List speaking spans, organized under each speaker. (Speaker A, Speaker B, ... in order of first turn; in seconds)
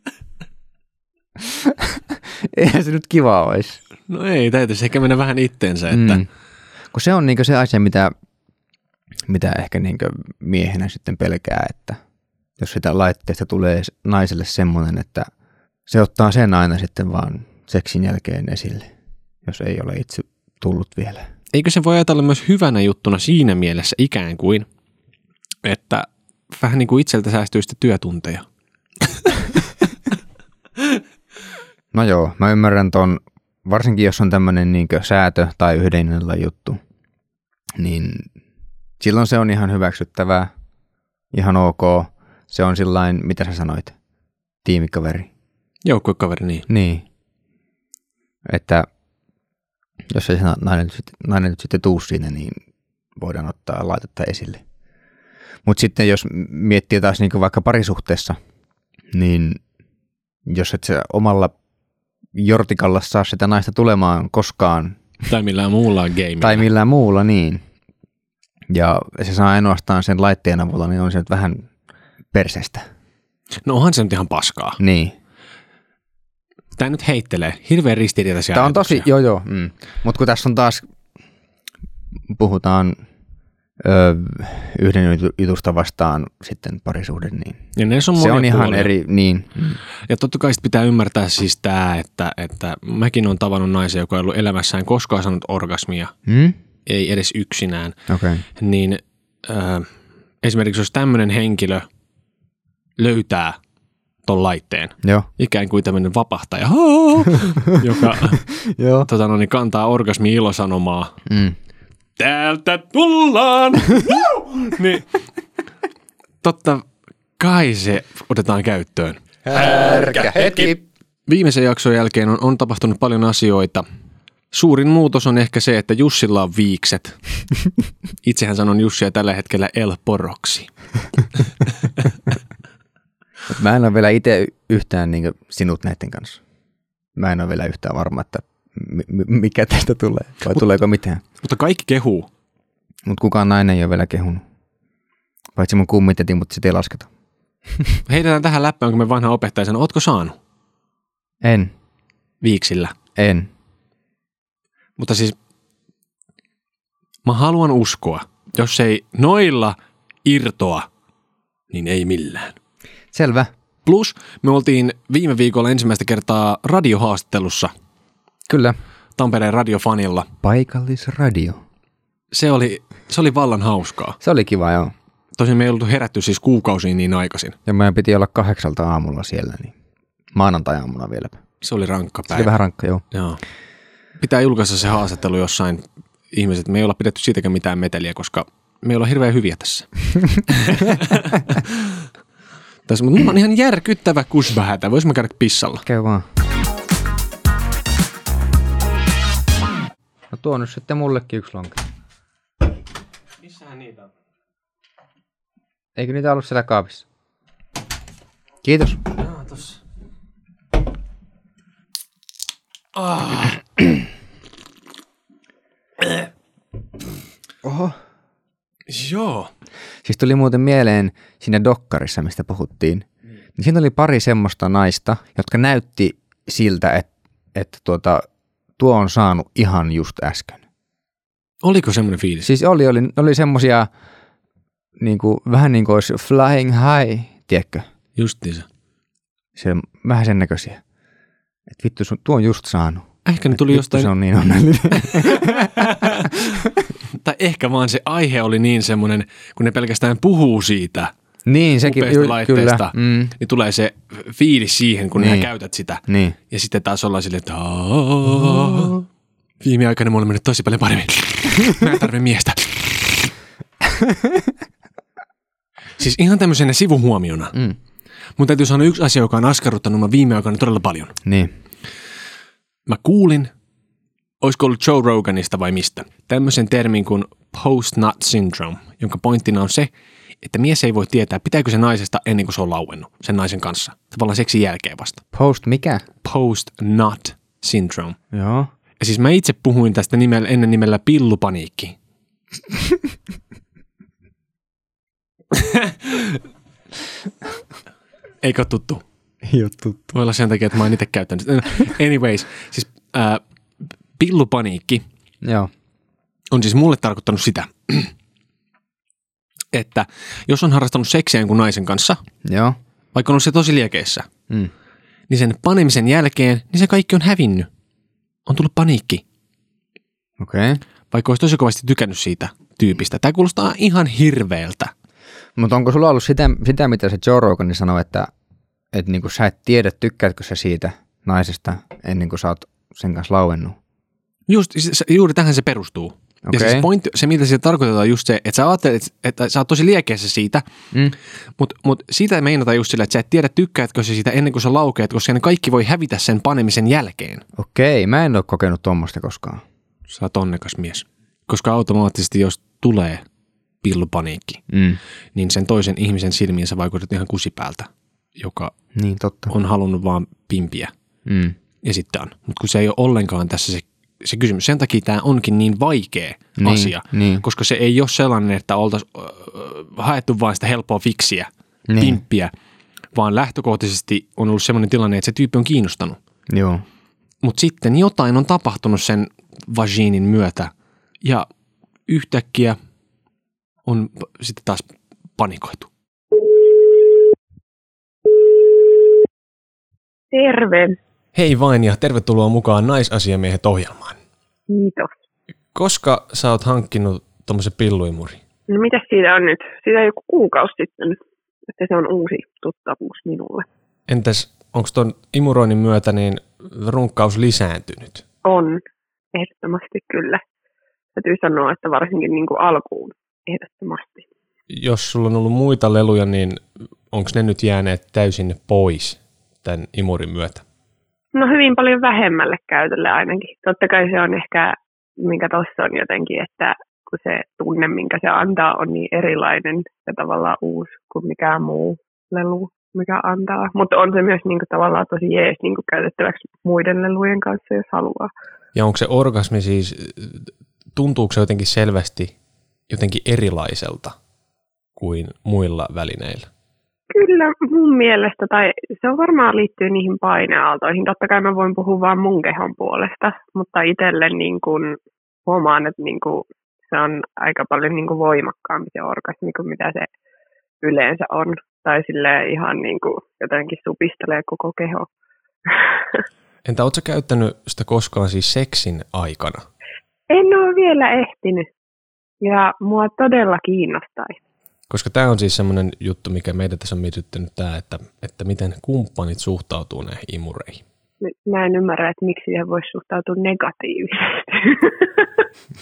Speaker A: 1.4-3.8, 5.9-6.2, 6.9-8.1, 9.3-12.0, 12.6-15.3, 15.9-18.9, 19.4-21.3, 31.9-36.8, 37.8-38.3, 39.0-40.5, 41.3-44.0, 44.6-45.3, 46.7-47.0, 48.5-48.9, 50.1-52.6, 53.2-54.6, 55.6-58.4, 59.1-59.6, 60.5-61.5, 62.4-65.0, 66.4-67.6, 68.7-71.7, 72.3-72.9, 74.8-75.2, 78.5-80.8, 82.3-83.0, 83.8-87.6, 88.2-89.8, 96.3-96.6, 98.1-98.4, 108.5-109.1, 111.3-111.6, 119.5-120.8, 133.5-136.4, 137.2-141.2, 143.1-144.4, 145.6-147.1, 151.4-151.7, 153.2-153.5, 163.1-163.5, 168.5-168.8, 170.4-171.6, 174.2-174.9, 177.7-179.7, 180.3-181.4, 182.3-183.0, 195.9-196.3, 200.3-201.8, 206.0-207.1, 208.6-209.0, 217.6-218.0, 220.0-223.1, 223.6-228.3, 228.8-230.6, 232.4-233.9, 235.0-237.8, 239.6-240.8, 241.7-246.8, 251.5-253.3, 255.2-255.5, 256.1-256.4, 258.5-258.9, 263.9-264.4, 271.2-271.5, 285.3-286.1, 288.3-288.7, 299.5-300.1, 305.4-305.7, 312.4-312.8, 320.4-320.8, 325.6-328.3, 328.9-333.8, 336.4-336.9, 347.6-349.6, 354.7-355.0, 358.9-359.5, 361.3-361.6, 366.6-367.4, 371.9-372.2, 376.5-376.8
Speaker B: 4.1-6.2, 21.5-24.7, 25.6-28.5, 45.9-46.7, 65.3-66.7, 73.6-74.8, 76.8-79.1, 87.8-88.9, 90.1-96.1, 96.9-98.0, 98.6-99.9, 100.4-101.9, 103.0-103.6, 104.3-108.5, 109.1-111.2, 112.2-115.1, 116.4-116.9, 117.4-123.8, 124.5-127.2, 128.2-130.7, 141.4-142.3, 148.1-150.4, 152.4-152.9, 155.0-155.4, 157.2-160.9, 161.7-162.6, 163.8-167.7, 169.2-170.3, 172.3-174.2, 175.4-177.6, 181.6-182.5, 183.1-183.4, 184.2-189.9, 190.4-191.9, 192.9-195.8, 203.4-204.1, 209.2-209.8, 213.0-213.6, 218.9-219.5, 231.6-232.5, 238.2-238.7, 243.2-244.1, 245.1-246.6, 247.2-251.1, 251.8-259.0, 259.6-263.3, 266.0-267.6, 268.4-271.2, 272.9-273.5, 274.4-279.9, 280.4-285.2, 286.2-288.2, 289.0-292.0, 295.5-296.4, 298.4-299.0, 300.1-303.4, 304.2-305.0, 306.5-308.1, 309.7-312.2, 313.1-314.3, 315.3-317.7, 318.5-319.2, 321.1-324.9, 334.5-340.6, 341.6-347.4, 350.1-353.2, 353.8-354.6, 355.4-358.7, 359.5-360.9, 361.8-372.5, 373.1-376.2, 377.4-380.7, 382.1-382.8, 383.9-384.8, 385.4-385.9, 391.4-394.2, 395.7-398.4, 404.1-408.2, 414.7-420.6, 438.8-442.3, 442.9-444.2, 445.0-446.5, 466.7-469.7, 474.9-480.8
Speaker C: 390.3-391.0, 394.7-395.1, 398.7-401.2, 401.7-403.7, 408.4-408.8, 409.3-410.4, 411.1-414.2, 421.3-438.3, 447.1-460.1, 460.8-465.1, 465.7-466.2, 470.3-471.7, 472.4-474.4, 481.2-485.5